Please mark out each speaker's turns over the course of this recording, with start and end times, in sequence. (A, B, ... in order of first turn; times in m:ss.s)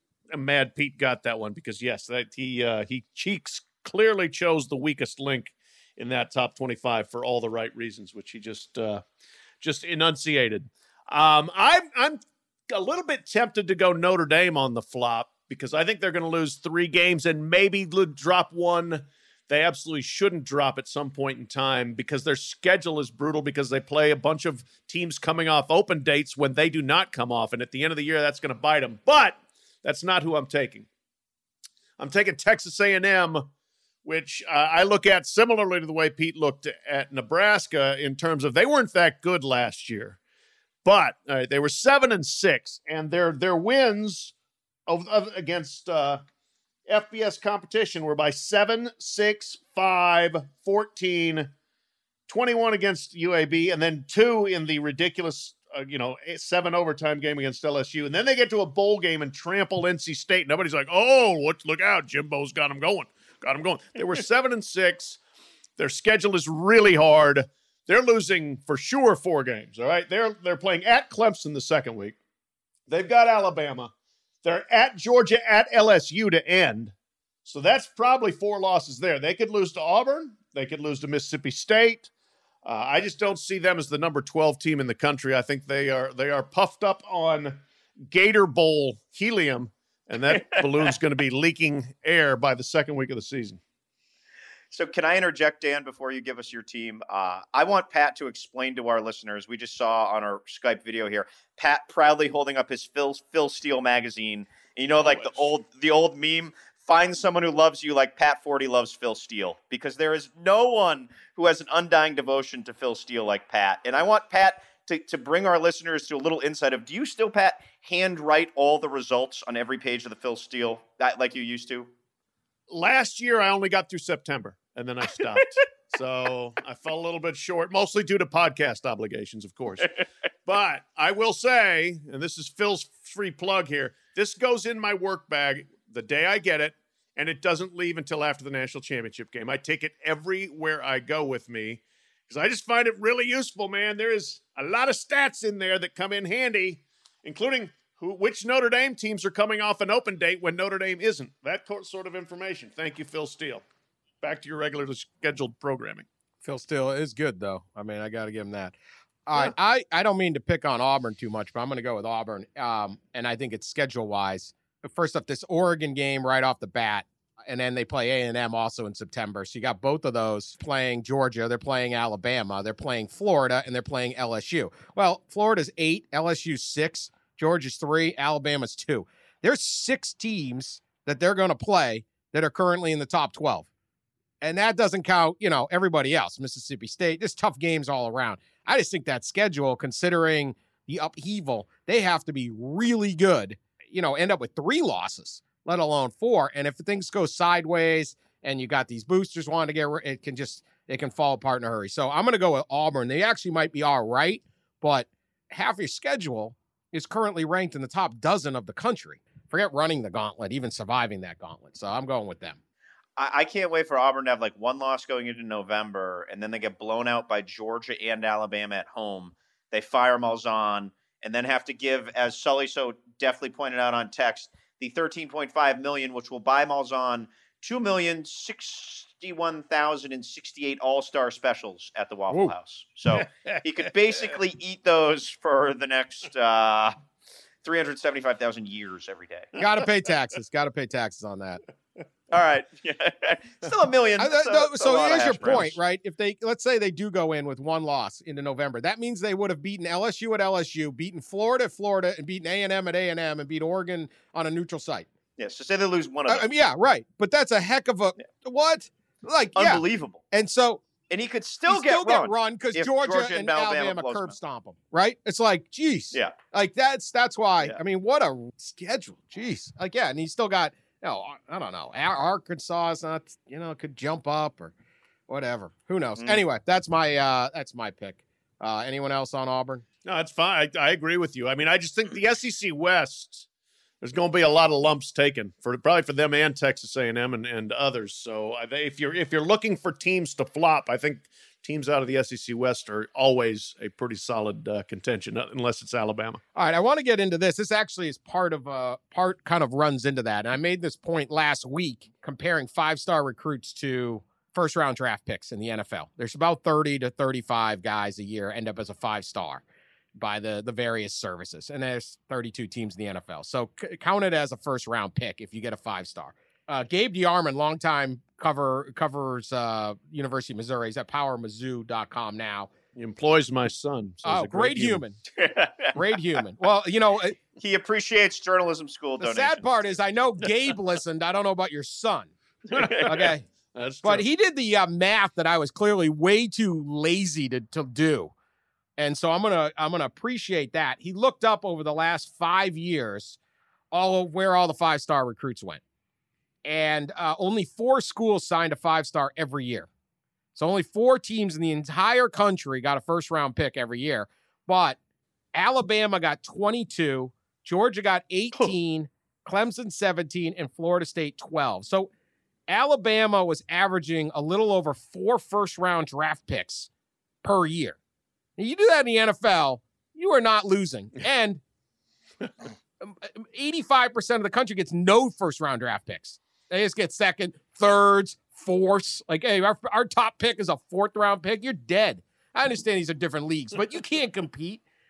0:00.3-0:09.0 A
0:09.6-0:30.9 A
0:32.0-0:33.5 A
0:34.0-0:40.2 A
0:40.8-0:44.3 A
0:44.9-0:46.2 A
0:46.9-0:51.5 A
0:52.3-1:05.2 A
1:05.8-1:12.2 A
1:12.9-1:13.9 A
1:14.4-1:16.9 A
1:17.4-1:22.1 A
1:22.6-1:33.6 A
1:34.7-2:01.9 B
1:45.0-1:45.4 A
2:02.7-2:33.6 A
2:34.2-2:36.1 A
2:36.4-2:38.8 C
2:39.3-3:03.7 C
3:04.4-3:32.6 C
3:33.2-3:57.0 B
3:52.3-3:52.6 C
3:53.1-3:53.9 A
3:57.6-3:59.5 B
3:59.6-4:01.6 C
4:02.3-4:05.8 B
4:04.2-4:15.1 C
4:15.4-4:16.5 B
4:16.3-4:20.8 C
4:19.6-4:20.2 B
4:21.1-4:24.4 B
4:21.7-4:34.7 C
4:35.3-4:39.8 C
4:40.0-4:43.5 A
4:44.0-4:56.4 A
4:56.6-5:09.6 C
5:10.2-5:22.7 C
5:23.0-5:25.0 A
5:24.2-5:25.2 C
5:25.4-5:26.0 B
5:25.9-5:27.4 C
5:27.6-5:30.0 B
5:29.2-5:32.3 C
5:32.7-5:34.2 A
5:32.8-5:33.0 B
5:33.0-5:33.4 C
5:34.0-5:38.3 C
5:39.0-5:43.4 C
5:43.9-5:45.8 C
5:46.6-5:49.9 C
5:50.6-5:55.0 C
5:55.6-6:02.1 C
6:02.7-6:06.9 C
6:07.4-6:08.0 C
6:08.6-6:11.6 C
6:13.0-6:24.8 C